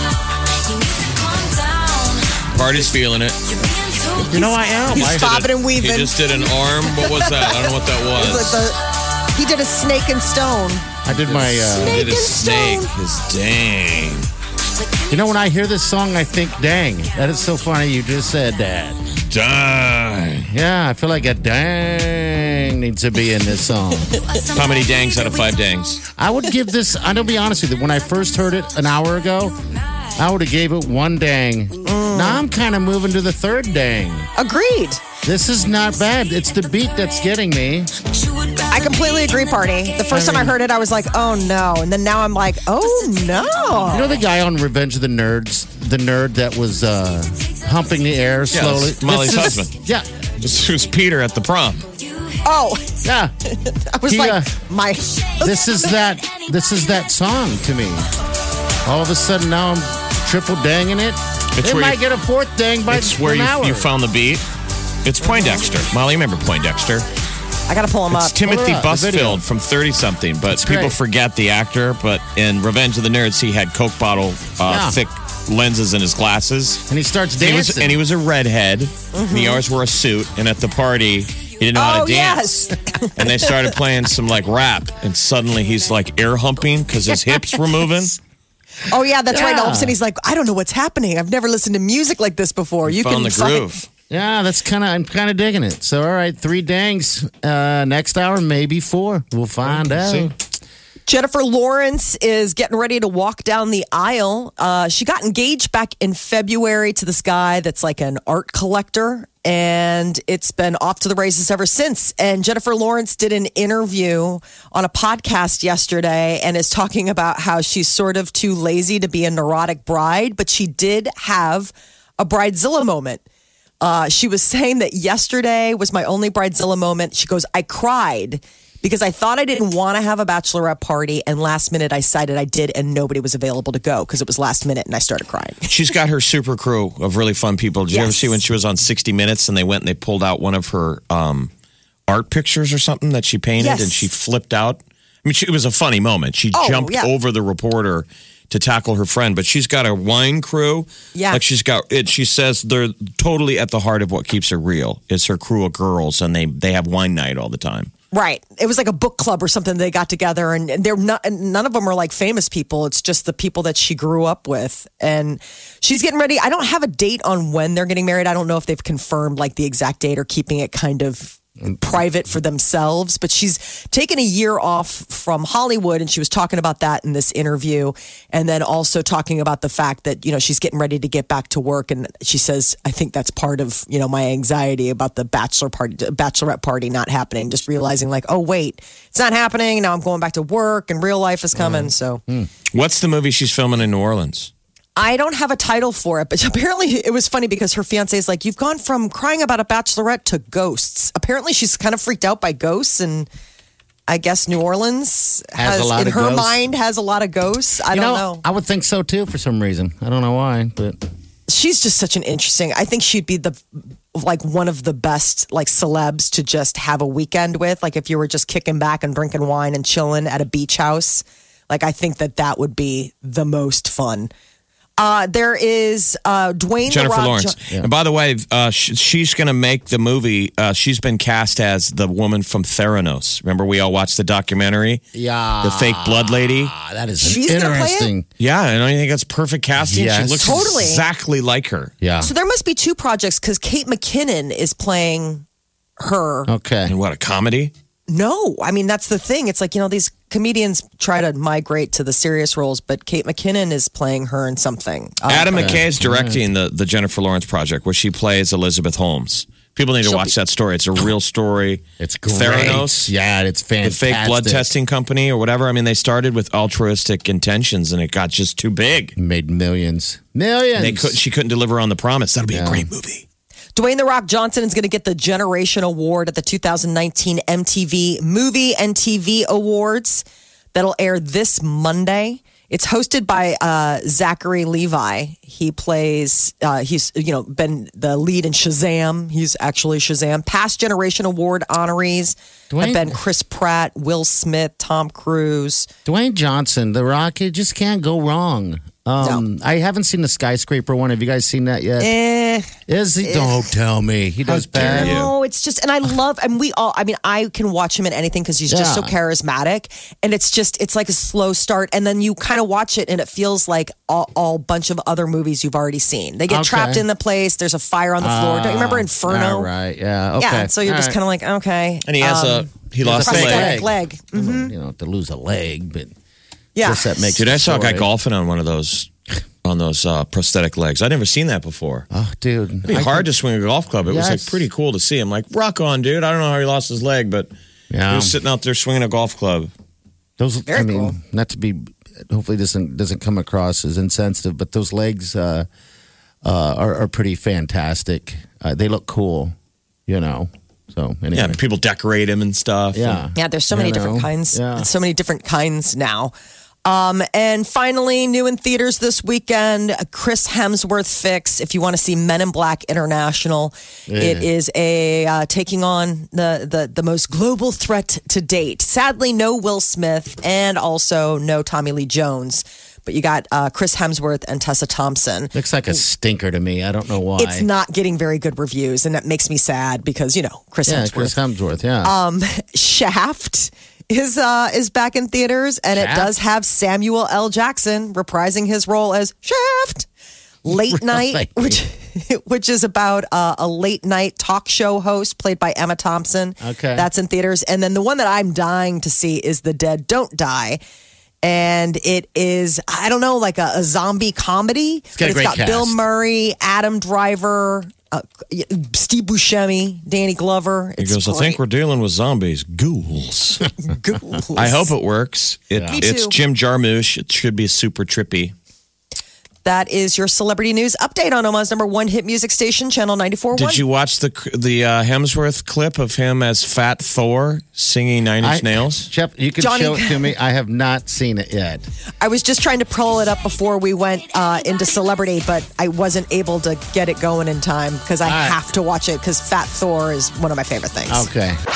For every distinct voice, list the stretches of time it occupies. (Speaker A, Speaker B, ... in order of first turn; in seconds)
Speaker A: 0.6-4.9, 14.7-16.1, 17.0-17.5, 24.0-26.0, 27.0-30.4, 35.6-41.9, 42.7-44.3, 47.3-48.7, 50.5-50.9, 51.8-53.1, 55.2-57.2
Speaker B: 2.5-3.4, 4.9-8.7, 11.2-14.3, 19.3-20.5, 24.5-26.0, 48.5-49.7, 50.4-51.8, 61.5-62.0, 62.9-64.4, 65.0-67.0, 68.1-76.8, 77.4-82.5, 83.2-88.2, 92.8-93.9, 99.8-100.3, 135.7-141.5, 142.1-157.9, 192.7-194.5, 226.9-235.0, 235.6-236.7, 238.4-241.9, 246.9-247.7, 255.2-263.1, 263.8-269.1, 270.8-273.2, 304.7-305.3, 322.1-323.8, 327.4-329.1, 329.6-332.1, 332.8-337.5, 338.1-339.7, 351.3-353.2, 411.0-413.7, 414.6-418.5, 423.5-429.1
Speaker C: 4.2-5.5, 11.0-12.2, 15.1-19.0, 20.5-24.1, 26.1-29.6, 30.1-34.3, 35.2-37.9, 40.1-40.6, 43.9-50.1, 53.0-53.3, 54.0-54.5, 55.4-58.1, 58.8-63.9, 68.4-69.4, 70.5-71.0, 74.6-75.0, 76.9-78.0, 89.3-90.0, 94.1-100.3, 191.5-192.5, 205.6-206.6, 207.9-211.0, 235.1-238.3, 239.8-240.7, 242.0-242.3, 246.5-246.9, 255.5-256.4, 262.0-264.7, 269.1-271.2, 272.5-272.9, 292.7-293.2, 296.0-302.2, 302.9-305.2, 308.7-309.1, 316.5-317.0, 318.2-321.1, 323.0-326.1, 326.8-328.1, 332.1-333.3, 334.1-334.6, 337.9-338.4, 340.4-345.7, 346.4-349.5, 350.1-351.6, 352.9-354.9, 364.1-364.5, 375.5-377.7, 380.9-382.1, 385.9-386.3, 390.6-391.8, 396.6-397.1, 405.1-406.0, 415.7-416.0, 428.4-431.9, 438.2-438.6, 441.1-441.6
Speaker D: 4.9-8.8, 9.3-10.8, 11.7-12.9, 31.8-32.4, 34.4-35.0, 38.7-44.2, 52.4-52.9, 53.4-55.5, 65.2-65.6, 67.7-68.4, 79.1-79.6, 81.7-83.7, 88.8-93.8, 101.1-123.2, 123.8-135.7, 137.9-138.3, 143.6-144.1, 146.5-147.1, 151.1-151.4, 158.1-192.2, 195.0-203.3, 204.1-208.4, 211.5-213.6, 214.1-224.3, 225.0-227.6, 237.2-238.1, 240.4-241.0, 242.2-245.4, 246.0-246.5, 248.1-255.8, 260.0-260.3, 273.8-295.9, 302.0-302.7, 303.2-303.6, 304.5-319.7, 320.4-324.7, 326.7-327.3, 340.7-341.1, 353.3-356.3, 356.8-375.9, 377.4-381.4, 382.0-390.1, 390.6-400.8, 401.4-411.6, 413.8-414.9, 415.9-416.4, 419.6-423.8, 429.6-430.3, 432.2-441.3